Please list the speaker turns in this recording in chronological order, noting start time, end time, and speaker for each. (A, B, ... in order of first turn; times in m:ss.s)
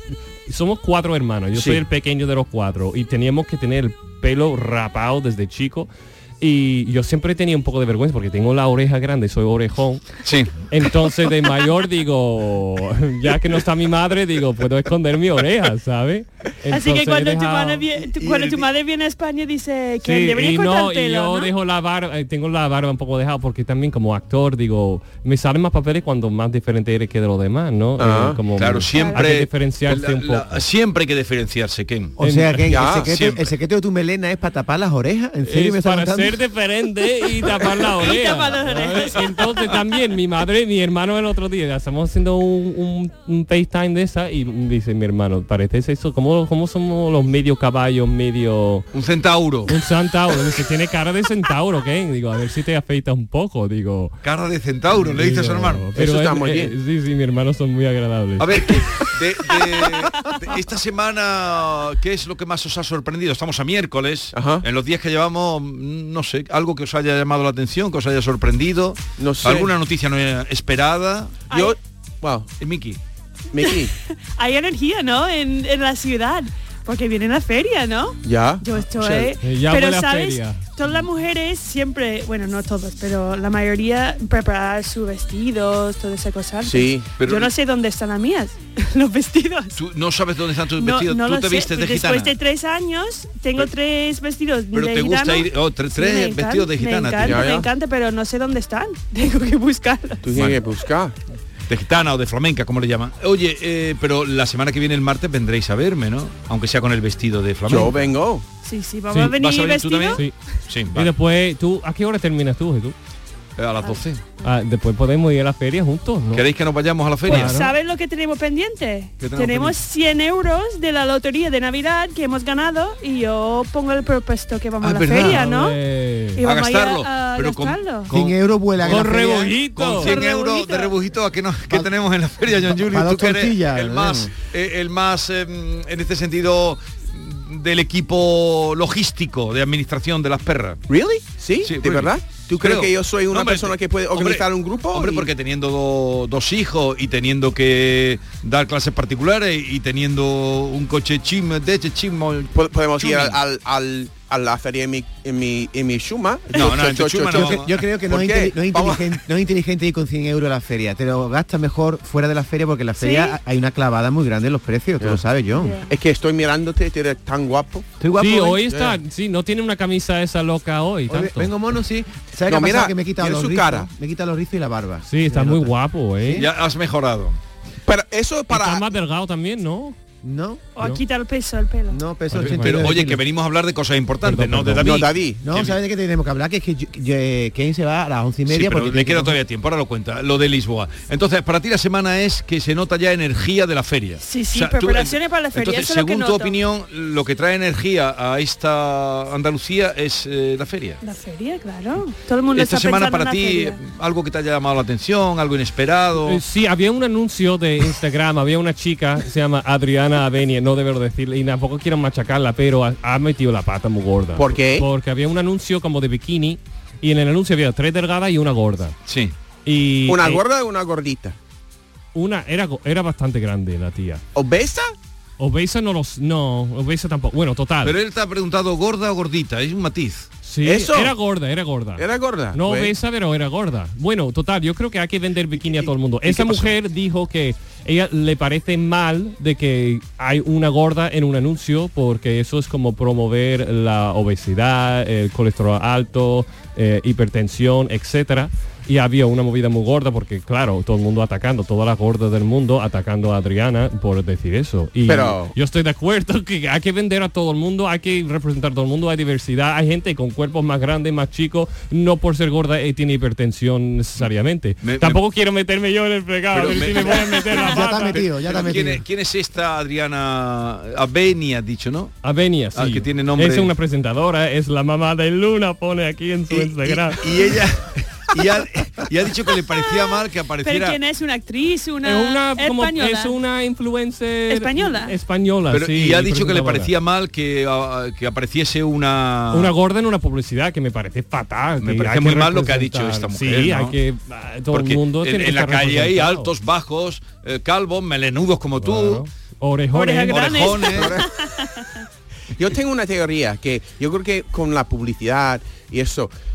0:00.5-0:05.9 A
0:01.6-0:01.8 B
0:06.4-0:10.2 A
0:10.2-0:10.5 C
0:10.7-0:17.8 A
0:16.7-0:21.5 D
0:18.2-0:18.6 C
0:20.0-0:30.6 A
0:28.0-0:28.4 B
0:28.6-0:32.1 C
0:28.9-0:29.2 D
0:32.2-0:36.4 E
0:32.2-0:32.7 A
0:32.7-0:33.5 C
0:32.7-0:33.0 B
0:35.4-0:48.9 A
0:38.0-0:39.5 D
0:48.9-0:49.7 C
0:49.6-0:54.2 A
0:54.2-0:55.9 C
0:54.9-0:58.7 A
0:56.0-0:56.7 B
0:58.4-1:11.4 C
1:04.3-1:04.6 B
1:09.2-1:09.7 B
1:11.5-1:11.7 D
1:11.5-1:12.5 B
1:12.6-1:13.0 C
1:13.5-1:13.9 B
1:13.6-1:29.7 D
1:18.2-1:19.4 B
1:19.4-1:20.7 A
1:26.6-1:27.1 B
1:27.2-1:27.5 C
1:29.7-1:32.3 C
1:30.8-1:40.2 D
1:34.7-1:37.5 C
1:37.2-1:37.7 B
1:40.2-1:41.1 B
1:40.3-1:40.6 C
1:41.7-1:48.1 C
1:47.7-1:48.4 B
1:48.6-1:50.2 D
1:49.3-1:51.1 C
1:50.9-1:52.9 A
1:53.6-1:54.2 C
1:54.4-1:56.4 A
1:56.3-1:57.6 C
1:57.2-1:57.7 A
1:57.3-2:05.8 D
1:59.2-1:59.8 C
2:04.8-2:05.4 C
2:05.2-2:06.4 A
2:06.4-2:08.1 D
2:06.4-2:08.3 C
2:08.1-2:09.6 E
2:08.8-2:10.1 A
2:09.7-2:20.8 C
2:10.0-2:10.9 D
2:12.7-2:14.3 E
2:20.9-2:25.3 B
2:21.6-2:33.4 C
2:32.5-2:39.1 B
2:36.5-2:37.8 C
2:37.3-2:45.8 E
2:43.0-2:43.4 D
2:45.5-2:45.9 D
2:45.9-2:49.0 B
2:48.0-2:48.6 E
2:48.2-2:51.5 A
2:51.1-2:55.7 E
2:52.5-2:53.9 B
2:55.0-2:56.4 A
2:56.3-2:57.4 C
2:57.8-2:58.9 B
2:58.5-3:00.0 A
3:00.2-3:00.6 E
3:00.8-3:02.0 D
3:01.9-3:03.2 E
3:02.3-3:02.8 A
3:02.3-3:05.7 C
3:04.2-3:04.9 A
3:04.8-3:05.4 B
3:05.4-3:09.4 E
3:08.5-3:21.0 C
3:14.2-3:16.5 D
3:21.0-3:23.8 D
3:22.5-3:26.4 C
3:26.2-3:39.0 A
3:34.4-3:34.8 B
3:39.0-3:39.3 C
3:39.6-3:40.4 A
3:40.1-3:41.4 B
3:42.1-3:44.2 A
3:44.3-3:44.9 B
3:45.4-3:48.0 A
3:47.8-3:50.3 C
3:50.4-4:28.3 A
3:50.6-3:51.1 B
3:52.0-3:52.9 B
3:56.3-3:56.6 B
4:15.0-4:15.5 B
4:24.8-4:25.2 C
4:26.5-4:32.1 C
4:27.5-4:29.0 E
4:32.2-4:37.2 A
4:32.7-4:33.7 C
4:37.2-4:41.0 C
4:39.7-4:43.3 D
4:42.0-4:46.9 A
4:44.5-4:45.1 D
4:45.7-4:49.7 C
4:49.5-4:56.5 A
4:51.8-4:54.0 C
4:54.7-4:59.2 C
4:58.8-5:00.9 A
4:59.9-5:02.0 D
5:00.3-5:01.2 C
5:02.6-5:06.3 B